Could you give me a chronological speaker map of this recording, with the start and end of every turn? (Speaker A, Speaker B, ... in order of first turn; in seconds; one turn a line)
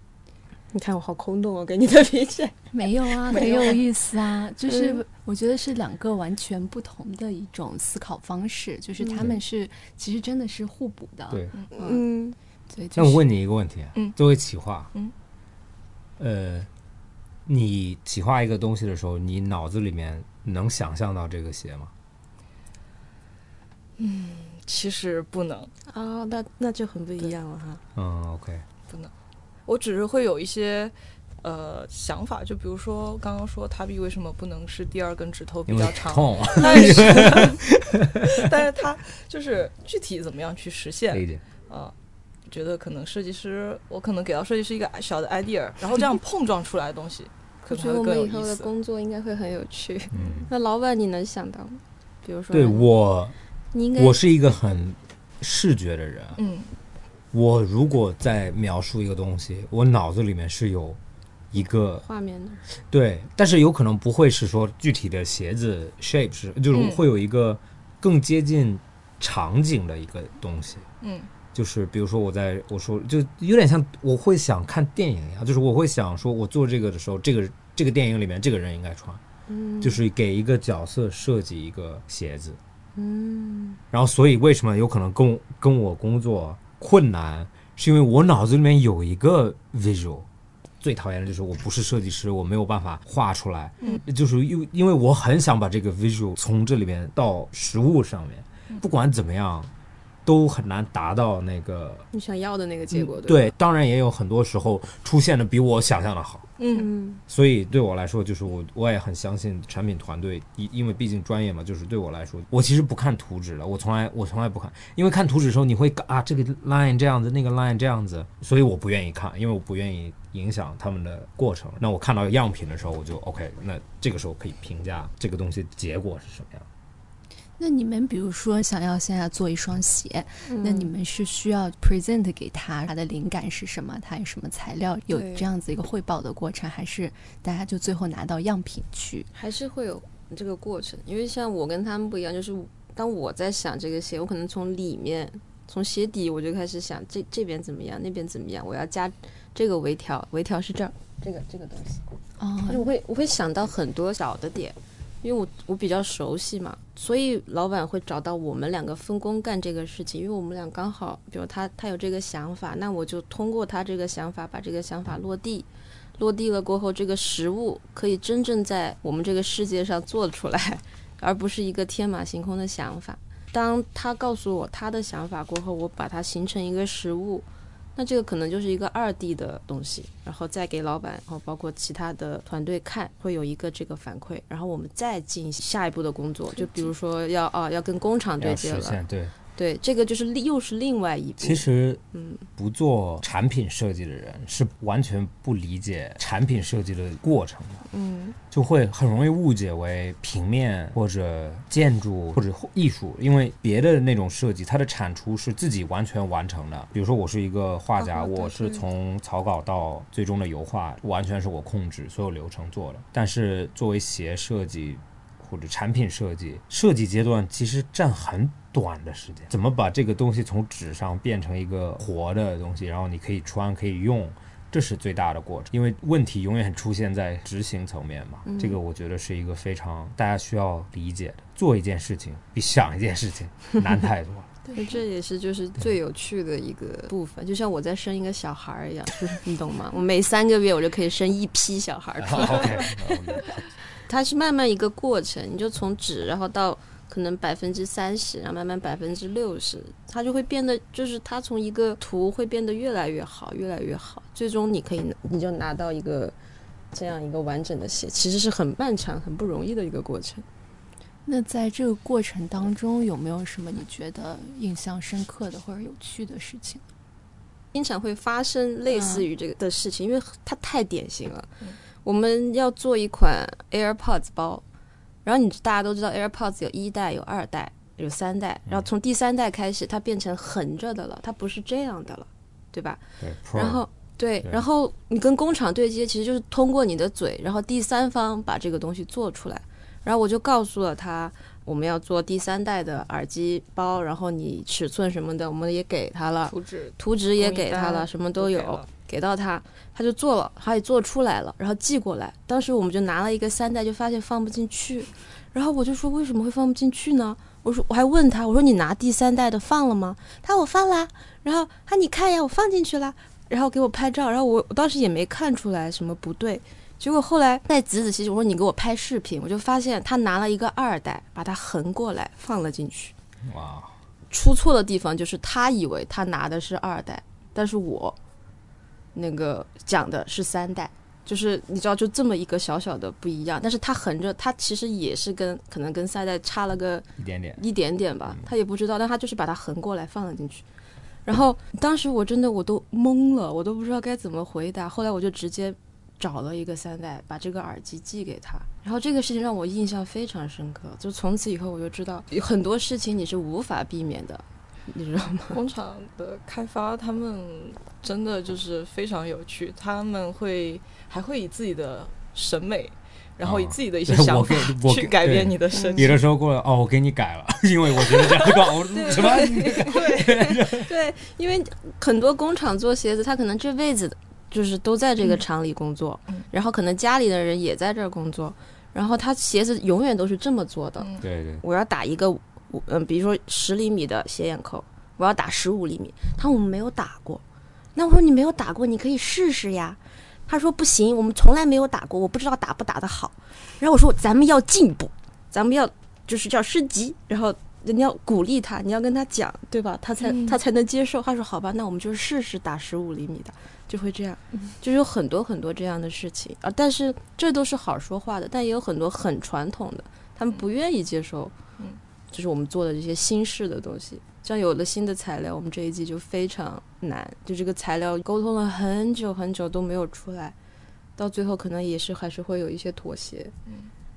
Speaker A: 0.7-2.6
Speaker B: 2.7-12.1
Speaker A: 3.3-3.8
Speaker C: 3.3-3.8
Speaker A: 4.7-5.0
Speaker A: 9.0-9.3
Speaker D: 11.3-11.6
Speaker A: 11.7-12.4
Speaker B: 12.7-13.2
Speaker D: 12.9-14.9
Speaker D: 16.2-16.7
Speaker D: 17.5-21.9
Speaker C: 24.0-25.7
Speaker A: 25.9-27.8
Speaker D: 27.9-28.6
Speaker C: 29.7-37.6
Speaker D: 35.7-38.5
Speaker C: 38.3-41.9
Speaker D: 41.1-41.4
Speaker C: 42.5-48.7
Speaker A: 47.7-52.9
Speaker D: 50.1-50.5
Speaker D: 52.5-53.4
Speaker A: 53.7-54.2
Speaker D: 54.0-56.4
Speaker C: 56.4-56.7
Speaker D: 57.3-61.0
Speaker D: 61.5-62.0
Speaker A: 62.0-62.6
Speaker D: 62.9-70.9
Speaker C: 66.7-67.0
Speaker C: 71.0-71.3
Speaker D: 71.5-79.2
Speaker A: 79.5-80.0
Speaker D: 79.8-82.6
Speaker A: 83.0-83.8
Speaker D: 83.9-90.3
Speaker D: 90.8-99.7
Speaker D: 100.3-102.1
Speaker A: 102.1-103.5
Speaker D: 102.9-106.5
Speaker C: 106.6-106.9
Speaker A: 106.7-107.2
Speaker D: 107.3-126.7
Speaker B: 127.6-139.3
Speaker A: 130.4-130.9
Speaker A: 135.1-135.5
Speaker A: 139.3-152.0
Speaker B: 152.4-152.9
Speaker A: 152.7-189.0
Speaker D: 188.4-189.3
Speaker A: 189.6-192.4
Speaker D: 191.4-192.0
Speaker D: 192.6-197.8
Speaker A: 197.9-198.4
Speaker D: 198.5-234.5
Speaker C: 208.0-208.8
Speaker A: 228.5-228.8
Speaker B: 234.7-235.0
Speaker A: 234.7-243.4
Speaker D: 242.2-243.7
Speaker A: 244.1-256.4
Speaker A: 256.9-260.5
Speaker B: 261.3-266.8
Speaker A: 267.7-274.6
Speaker B: 268.9-269.3
Speaker A: 275.2-323.1
Speaker D: 283.2-283.8
Speaker C: 296.5-298.9
Speaker D: 323.4-323.9
Speaker A: 324.3-328.2
Speaker A: 329.1-340.6
Speaker D: 337.2-337.6
Speaker A: 341.3-355.6
Speaker C: 355.5-366.2
Speaker D: 363.4-370.9
Speaker A: 365.7-366.1
Speaker C: 368.1-370.6
Speaker A: 368.9-387.4
Speaker C: 381.0-381.2
Speaker D: 381.2-381.6
Speaker A: 387.9-411.6
Speaker C: 400.2-400.6
Speaker A: 412.3-420.6
Speaker A: 421.2-423.5